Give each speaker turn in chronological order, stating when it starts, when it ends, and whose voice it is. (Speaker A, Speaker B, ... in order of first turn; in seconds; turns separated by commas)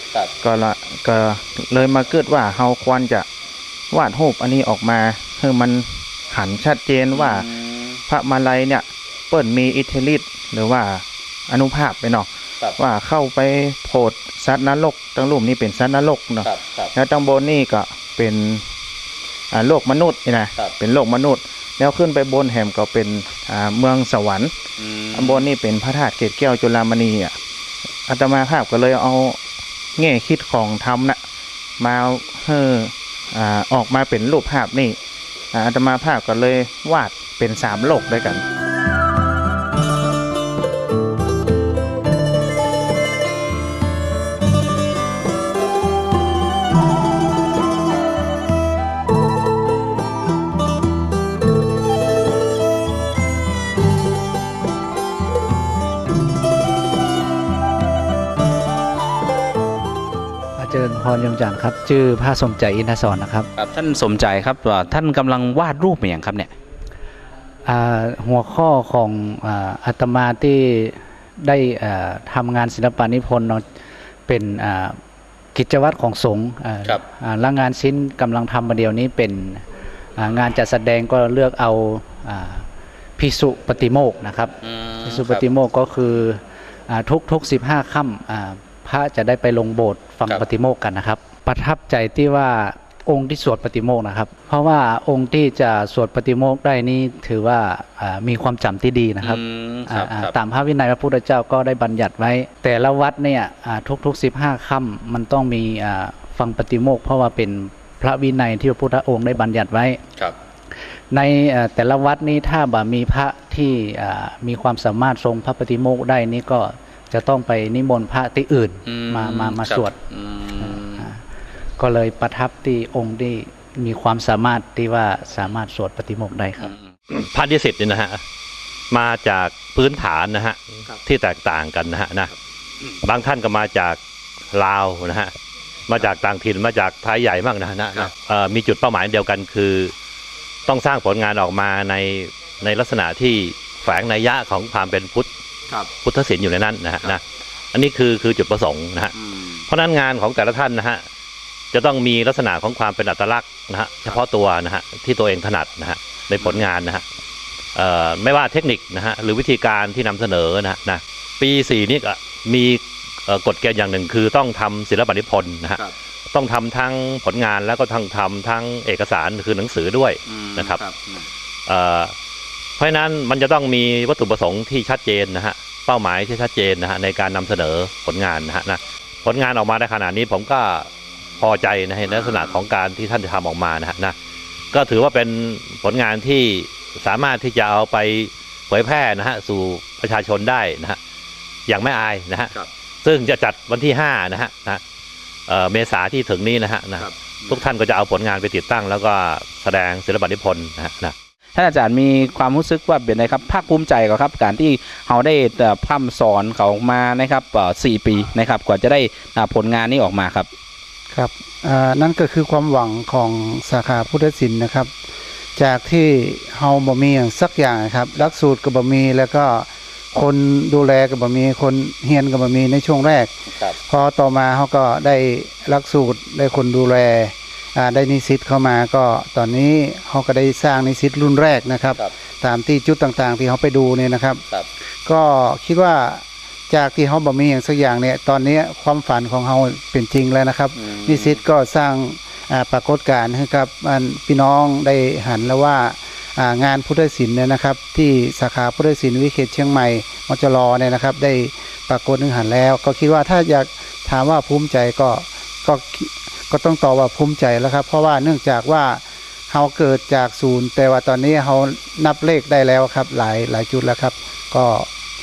Speaker A: 0.4-3.2, Speaker A: 3.9-7.5, Speaker B: 7.1-8.0, Speaker A: 8.1-18.6, Speaker B: 16.4-16.9, Speaker A: 19.5-24.5, Speaker B: 24.8-25.4, Speaker A: 25.1-27.3, Speaker A: 28.1-29.4, Speaker A: 30.0-31.2, Speaker A: 31.8-35.0, Speaker A: 35.5-38.4, Speaker C: 60.6-63.5, Speaker B: 63.5-66.5, Speaker C: 67.7-73.6, Speaker C: 74.3-75.0, Speaker C: 75.5-79.6, Speaker C: 80.2-82.6, Speaker C: 83.2-110.0, Speaker B: 84.6-85.5, Speaker B: 99.2-100.4, Speaker C: 111.1-119.9, Speaker B: 118.8-121.0, Speaker C: 120.6-121.2, Speaker C: 121.8-126.7, Speaker B: 126.6-126.9, Speaker D: 127.1-128.2, Speaker D: 128.9-132.3, Speaker D: 133.0-134.0, Speaker D: 134.5-135.3, Speaker D: 135.9-139.9, Speaker D: 140.7-145.3, Speaker D: 146.0-147.2, Speaker D: 147.7-149.1, Speaker B: 149.1-149.6, Speaker D: 149.7-151.0, Speaker D: 151.7-157.0, Speaker B: 156.4-156.6, Speaker D: 157.7-165.8, Speaker D: 166.3-170.8, Speaker B: 170.2-171.3, Speaker D: 171.7-172.1, Speaker D: 172.8-180.9, Speaker D: 181.4-184.1, Speaker B: 182.0-182.6, Speaker D: 184.7-191.0, Speaker D: 191.7-192.5, Speaker D: 193.0-194.8, Speaker D: 195.5-201.1, Speaker B: 197.0-197.6, Speaker B: 201.5-210.5, Speaker E: 211.1-214.9, Speaker E: 215.6-223.3, Speaker E: 223.9-234.4, Speaker E: 235.0-264.9, Speaker B: 240.7-241.4